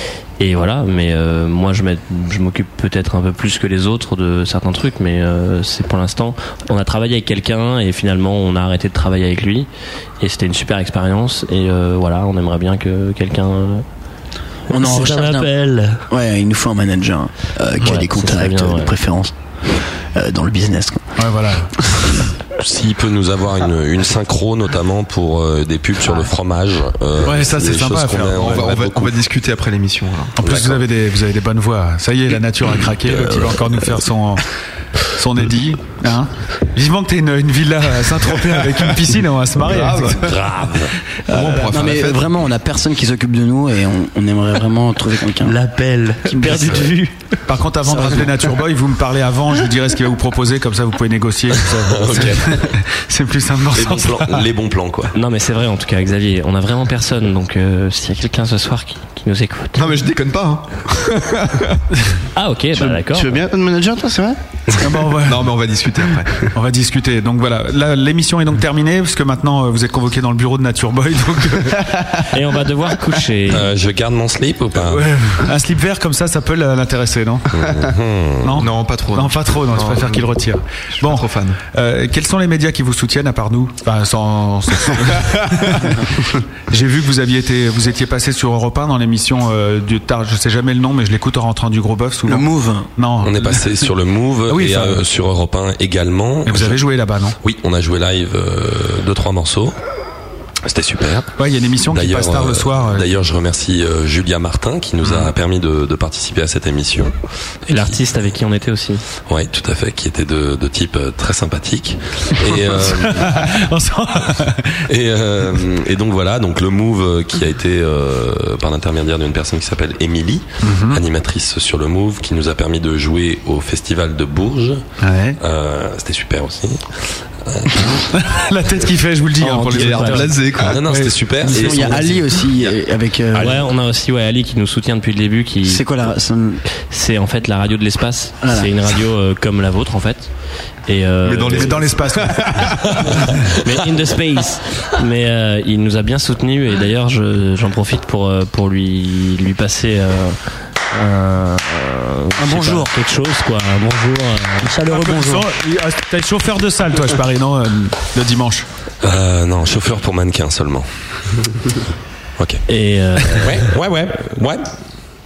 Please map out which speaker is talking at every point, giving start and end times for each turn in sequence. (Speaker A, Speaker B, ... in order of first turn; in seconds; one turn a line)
Speaker A: 0.4-9.7
Speaker A: 10.2-13.8
Speaker B: 14.7-15.5
Speaker A: 14.7-16.0
Speaker B: 16.1-19.3
Speaker A: 17.8-18.9
Speaker B: 20.1-21.1
Speaker C: 21.2-21.9
Speaker D: 22.6-29.1
Speaker C: 27.2-28.7
Speaker E: 28.4-30.4
Speaker C: 30.4-34.5
Speaker D: 30.4-30.8
Speaker D: 33.0-33.8
Speaker C: 35.1-40.3
Speaker E: 39.6-40.4
Speaker D: 40.2-40.9
Speaker E: 41.2-42.3
Speaker C: 41.3-41.7
Speaker B: 41.6-45.6
Speaker F: 45.4-47.1
Speaker C: 46.4-46.8
Speaker D: 46.5-46.9
Speaker C: 47.5-54.4
Speaker D: 51.8-52.6
Speaker D: 53.7-55.1
Speaker A: 55.1-60.0
Speaker E: 59.8-61.8
Speaker A: 62.3-63.4
Speaker F: 62.7-64.4
Speaker C: 64.8-65.5
Speaker E: 65.2-66.4
Speaker C: 66.5-72.2
Speaker A: 72.3-73.7
Speaker D: 73.5-75.1
Speaker C: 74.8-77.5
Speaker D: 77.5-78.7
Speaker C: 78.4-86.1
Speaker E: 78.6-80.3
Speaker E: 80.9-81.6
Speaker C: 86.7-93.7
Speaker B: 92.2-92.9
Speaker D: 93.2-96.8
Speaker C: 94.5-95.0
Speaker C: 96.4-97.4
Speaker D: 97.4-99.8
Speaker D: 100.7-101.3
Speaker C: 101.4-103.1
Speaker D: 101.9-107.1
Speaker A: 107.7-109.0
Speaker D: 109.2-113.4
Speaker C: 112.7-114.8
Speaker D: 114.9-124.8
Speaker C: 120.6-121.0
Speaker C: 125.0-125.4
Speaker D: 125.4-128.0
Speaker C: 128.1-132.0
Speaker A: 129.4-130.4
Speaker E: 129.4-130.8
Speaker D: 130.6-132.6
Speaker B: 131.5-133.6
Speaker A: 133.3-135.8
Speaker B: 135.6-136.6
Speaker A: 136.9-140.3
Speaker B: 138.4-139.0
Speaker A: 140.8-142.0
Speaker E: 141.2-143.3
Speaker C: 141.5-143.3
Speaker A: 143.6-150.4
Speaker A: 150.9-154.8
Speaker B: 152.3-152.9
Speaker B: 154.6-155.4
Speaker C: 154.8-158.7
Speaker D: 159.0-160.9
Speaker D: 162.4-162.6
Speaker A: 162.7-163.7
Speaker D: 163.3-164.7